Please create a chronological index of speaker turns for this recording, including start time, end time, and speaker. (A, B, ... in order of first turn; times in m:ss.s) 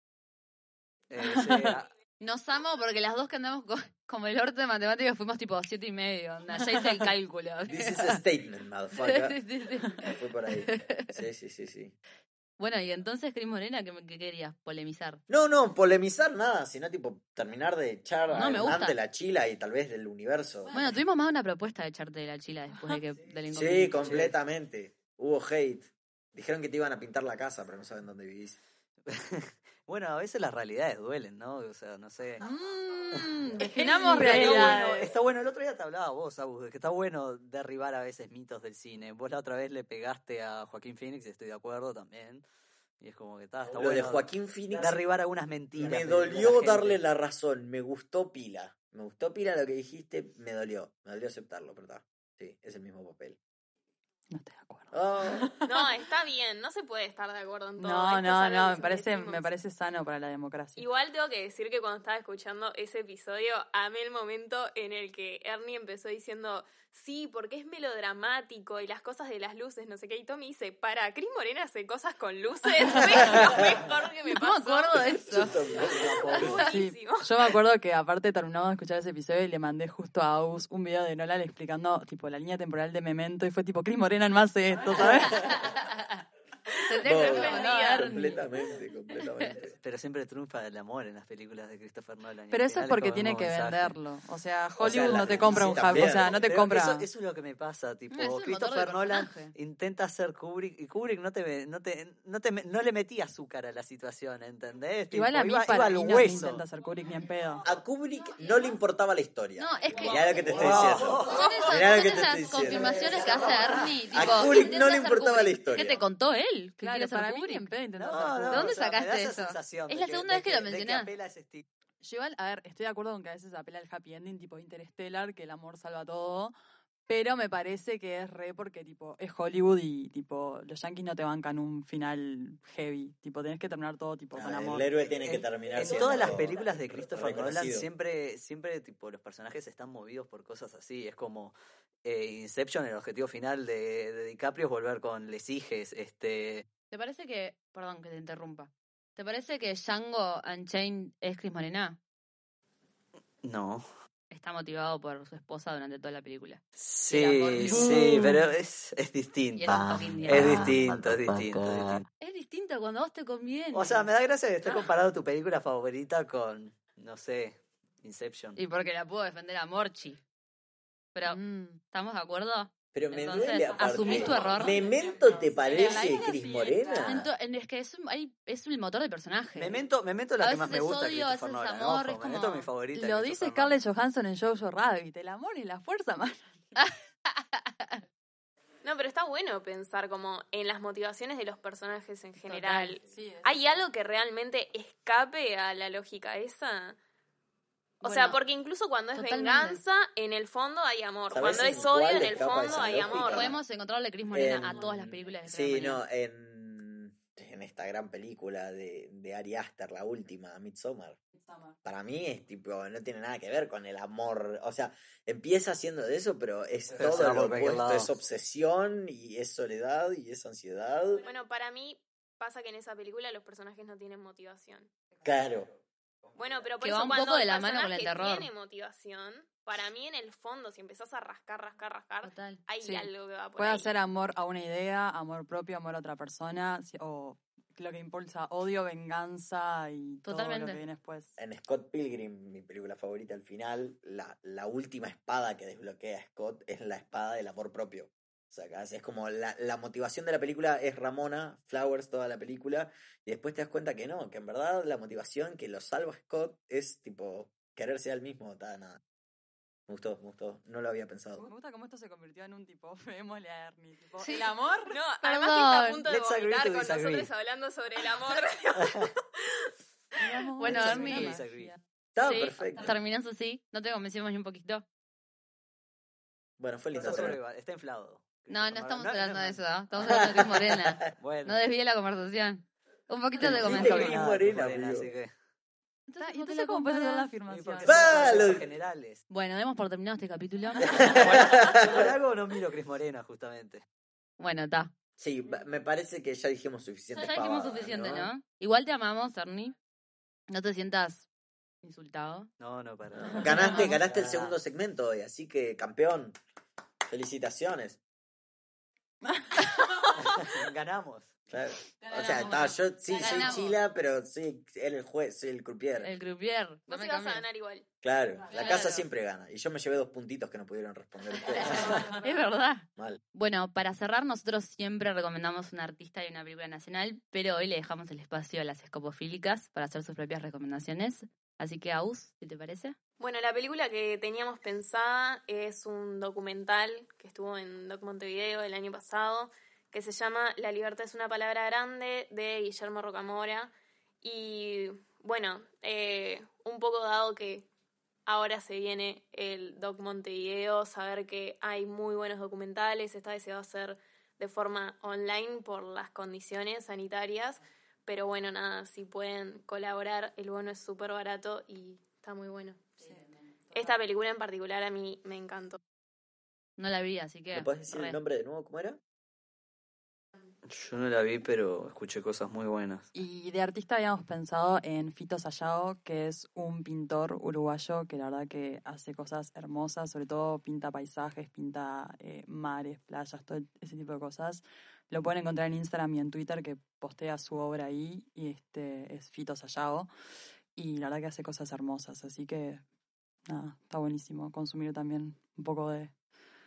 0:01.1-0:01.9 A
0:01.2-0:01.8 B
0:02.2-0:08.2 C
0:07.6-0:09.4 D
0:09.0-0:11.2 C
0:10.0-0:12.0 D
0:12.6-0:15.2 C
0:15.3-0:20.8 D
0:18.3-0:19.0 C
0:20.7-0:24.2 C
0:23.5-0:28.6 D
0:24.0-0:24.3 A
0:29.1-0:32.4 A
0:32.4-0:35.1 B
0:33.6-0:34.9 C
0:34.1-0:42.4 A
0:43.0-0:47.0 A
0:43.7-0:45.0 D
0:45.8-0:53.4 D
0:54.3-0:55.9 B
0:54.9-0:55.5 D
0:55.6-0:59.5 E
0:57.8-1:00.9 B
1:00.8-1:17.6 E
1:13.2-1:13.7 D
1:14.3-1:16.6 C
1:14.9-1:16.6 D
1:16.6-1:25.6 B
1:25.0-1:25.6 D
1:25.1-1:26.2 C
1:26.8-1:28.4 C
1:27.0-1:28.1 E
1:27.0-1:29.8 D
1:29.8-1:34.0 A
1:32.5-1:37.1 B
1:34.8-1:36.4 D
1:34.8-1:46.6 A
1:38.1-1:39.5 C
1:45.1-1:47.6 B
1:47.6-1:56.0 D
1:49.6-1:57.7 C
1:50.0-1:51.7 A
1:52.9-1:54.2 A
1:56.8-1:58.8 B
1:58.0-2:01.6 A
1:58.5-2:01.1 C
2:02.0-2:06.6 B
2:07.1-2:15.4 B
2:14.3-2:17.9 D
2:15.8-2:26.7 A
2:26.9-2:32.0 C
2:33.4-2:33.9 A
2:34.3-2:38.0 C
2:36.8-2:42.0 A
2:39.6-2:40.7 C
2:40.4-2:40.8 D
2:41.3-2:42.0 D
2:42.2-2:44.1 C
2:43.7-2:48.6 A
2:48.6-2:50.2 C
2:51.1-2:54.8 C
2:51.2-2:51.8 B
2:52.9-2:57.3 D
2:54.4-2:57.1 B
2:57.0-2:59.8 C
2:59.6-3:03.8 A
3:00.4-3:02.7 C
3:02.9-3:06.9 B
3:06.8-3:08.0 C
3:08.8-3:17.0 E
3:12.4-3:13.0 C
3:13.0-3:13.7 B
3:18.0-3:18.4 C
3:18.0-3:23.6 E
3:19.1-3:19.8 C
3:21.3-3:23.6 D
3:23.3-3:26.0 C
3:24.3-3:31.2 D
3:31.8-3:41.2 D
3:36.9-3:38.1 A
3:41.2-3:44.9 E
3:45.2-3:45.7 D
3:46.4-3:53.9 E
3:46.8-3:48.5 C
3:52.2-3:52.6 C
3:52.8-4:01.4 B
4:00.2-4:00.8 C
4:01.4-4:19.0 D
4:19.9-4:21.5 D
4:21.4-4:25.0 B
4:24.9-4:29.2 E
4:25.2-4:26.0 C
4:26.1-4:27.3 A
4:28.8-4:29.1 A
4:30.2-4:31.8 B
4:30.6-4:31.4 C
4:30.6-4:31.8 A
4:32.1-4:33.0 D
4:32.2-4:34.9 C
4:36.6-4:37.4 D
4:36.9-4:40.1 A
4:38.5-4:44.2 C
4:40.0-4:41.1 D
4:41.2-4:41.7 A
4:43.4-4:45.3 A
4:43.4-4:45.1 D
4:46.1-4:47.3 C
4:46.2-4:48.6 B
4:47.5-4:49.2 A
4:47.8-4:48.6 D
4:49.3-4:51.2 C
4:50.8-4:52.1 D
4:51.0-4:53.8 A
4:54.4-4:54.9 C
4:55.2-4:58.3 D
4:57.1-4:59.8 C
5:00.5-5:01.3 C
5:01.8-5:02.5 C
5:02.6-5:04.6 A
5:03.2-5:06.4 D
5:03.3-5:03.9 C
5:07.1-5:08.0 D
5:09.3-5:10.6 B
5:10.2-5:11.3 A
5:11.5-5:16.1 D
5:12.0-5:13.8 C
5:16.0-5:17.5 C
5:16.9-5:17.8 E
5:18.0-5:22.1 D
5:18.5-5:19.0 C
5:21.4-5:33.0 C
5:33.2-5:47.7 E
5:48.3-6:03.1 E
6:03.7-6:05.8 E
6:06.8-6:08.2 C
6:07.5-6:09.0 D
6:10.6-6:13.1 A
6:13.2-6:30.1 B
6:30.8-6:32.8 B
6:33.5-6:36.1 B